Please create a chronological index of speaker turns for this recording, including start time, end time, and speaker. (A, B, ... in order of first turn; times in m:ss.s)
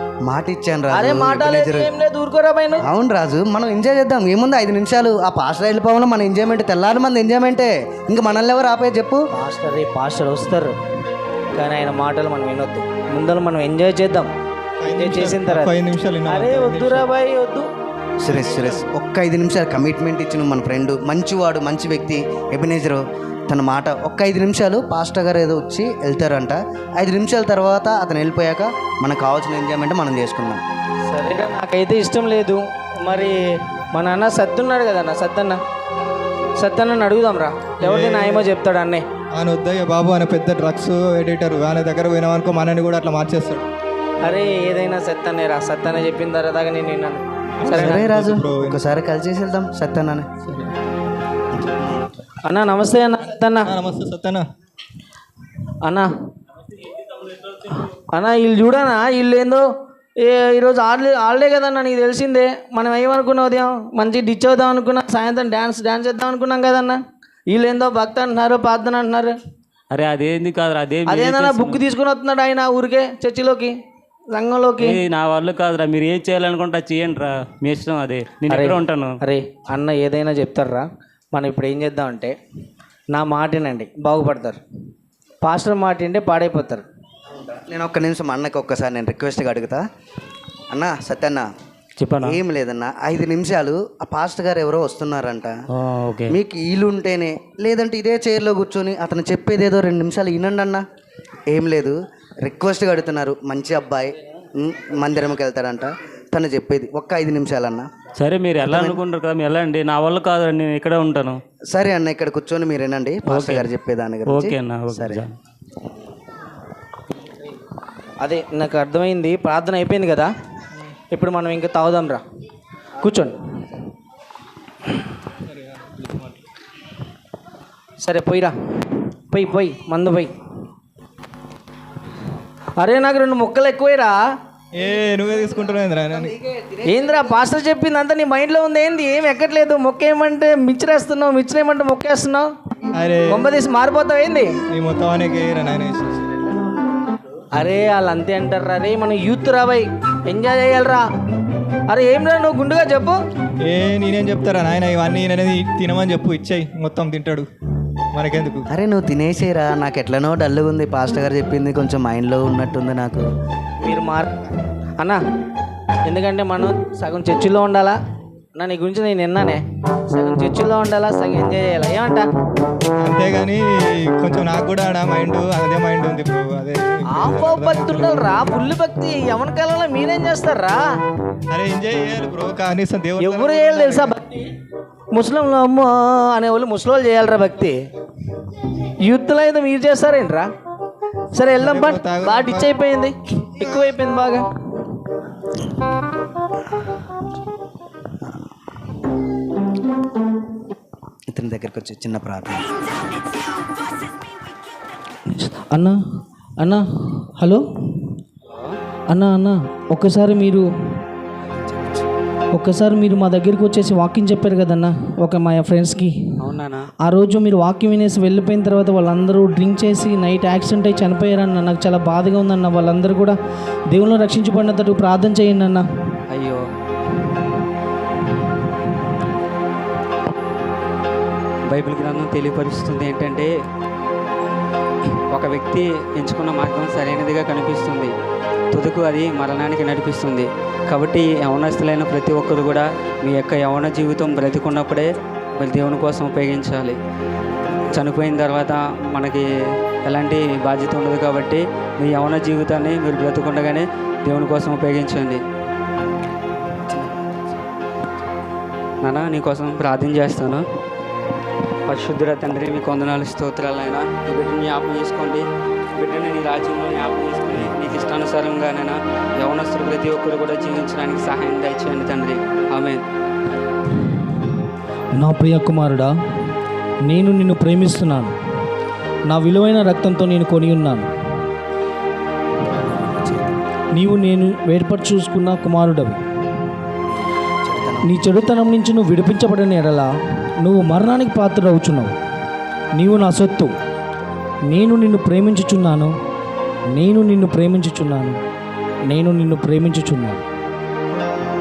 0:00.2-0:01.9 A
0:00.9-0:02.9 B
0:02.8-0:09.2 A
0:09.3-0:10.7 B
0:11.5-0:14.3 B
0:14.8-0:17.0 C
0:14.9-0:15.7 B
0:16.3-0:17.7 B
0:18.2-0:30.6 A
0:18.3-0:18.8 C
0:31.1-0:33.4 B
0:33.9-0:35.6 B
0:36.6-0:39.0 B
0:37.8-0:38.5 C
0:39.3-0:43.7 C
0:44.2-0:48.1 B
0:47.6-0:48.8 C
0:47.7-0:50.3 A
0:50.5-0:50.8 C
0:52.4-0:53.7 B
0:53.6-0:54.4 C
0:55.8-0:56.1 B
0:57.0-0:59.6 B
1:00.2-1:09.4 B
1:09.9-1:11.8 D
1:11.1-1:13.8 B
1:14.3-1:15.0 B
1:14.8-1:19.1 D
1:18.5-1:22.4 B
1:23.1-1:24.6 B
1:25.4-1:26.9 B
1:27.6-1:29.8 A
1:30.7-1:31.5 A
1:32.2-1:35.5 A
1:35.8-1:36.3 D
1:36.3-1:40.8 A
1:41.5-1:47.9 A
1:48.2-1:51.4 D
1:48.6-1:49.0 A
1:51.7-1:55.2 A
1:53.3-1:53.6 D
1:54.3-1:55.3 D
1:58.2-2:00.3 B
2:01.1-2:02.2 B
2:03.0-2:03.4 B
2:05.5-2:06.3 C
2:08.0-2:10.3 B
2:12.8-2:14.2 B
2:14.8-2:16.4 C
2:16.0-2:17.2 A
2:16.8-2:22.5 B
2:22.9-2:23.5 C
2:23.3-2:24.6 B
2:24.7-2:26.5 C
2:27.5-2:31.1 B
2:31.9-2:33.2 B
2:33.7-2:37.5 C
2:38.1-2:38.7 C
2:38.7-2:43.3 A
2:43.8-2:44.4 B
2:46.1-2:48.0 B
2:48.6-2:52.3 B
2:53.0-2:58.4 C
2:57.1-3:00.8 B
3:01.5-3:04.2 C
3:03.2-3:04.6 B
3:05.1-3:07.8 B
3:09.0-3:10.5 B
3:11.3-3:14.5 B
3:11.6-3:12.7 C
3:21.3-3:22.8 A
3:25.3-3:26.0 B
3:26.6-3:28.1 B
3:28.5-3:28.8 E
3:29.1-3:30.7 B
3:32.5-3:36.1 B
3:36.4-3:36.9 E
3:37.0-3:43.4 B
3:43.9-3:45.9 B
3:46.3-3:46.6 E
3:51.7-3:53.5 E
3:55.3-3:58.1 E
3:58.7-4:07.0 E
4:07.9-4:09.4 E
4:10.0-4:15.4 E
4:16.9-4:17.4 A
4:19.0-4:20.6 E
4:21.9-4:25.4 E
4:26.0-4:33.0 E
4:35.2-4:36.1 B
4:37.0-4:38.3 B
4:39.3-4:41.1 B
4:43.0-4:43.4 A
4:43.9-4:46.2 B
4:47.6-4:48.2 A
4:48.0-4:52.2 B
4:53.0-4:53.7 B
4:54.7-4:56.1 B
4:56.9-4:58.4 B
4:59.1-5:00.4 B